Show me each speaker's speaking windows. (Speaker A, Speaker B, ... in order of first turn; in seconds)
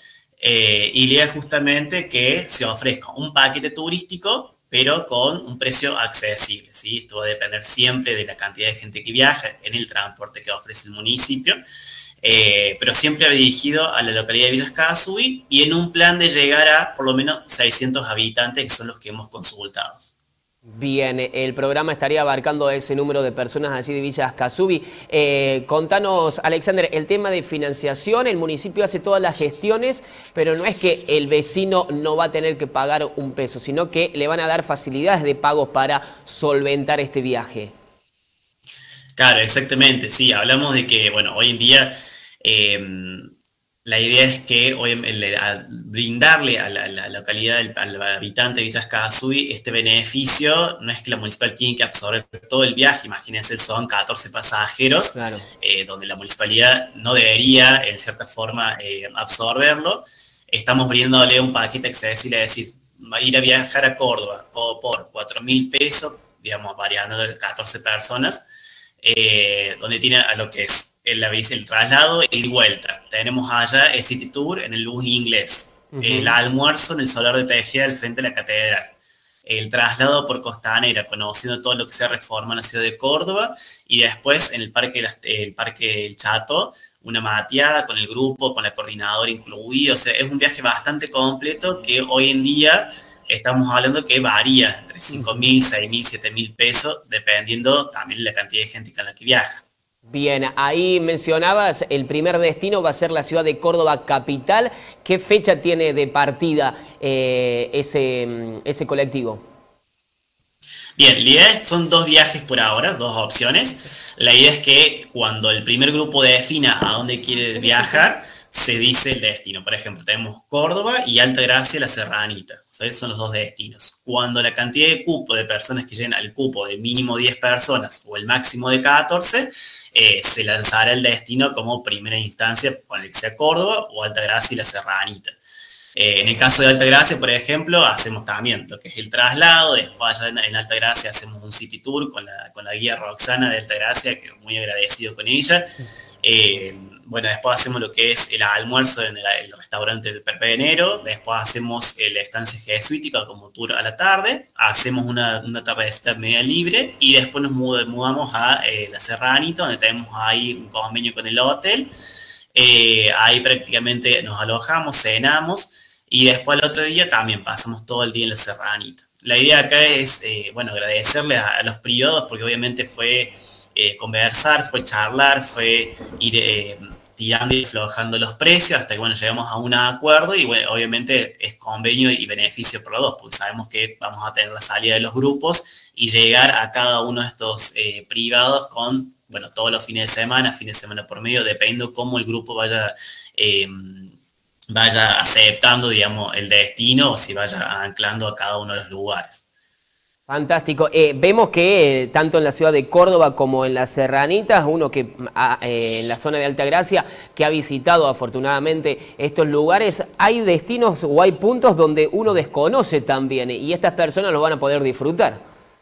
Speaker A: 0.4-11.6, 12.2-20.1, 39.2-43.3, 43.8-68.4, 69.0-78.9, 79.5-99.6, 111.0-135.4, 135.9-145.7, 146.2-161.9, 162.5-194.1, 194.7-199.4
Speaker B: 20.7-37.7, 55.1-55.5, 75.9-76.3, 95.1-95.5, 100.1-109.4, 200.3-215.4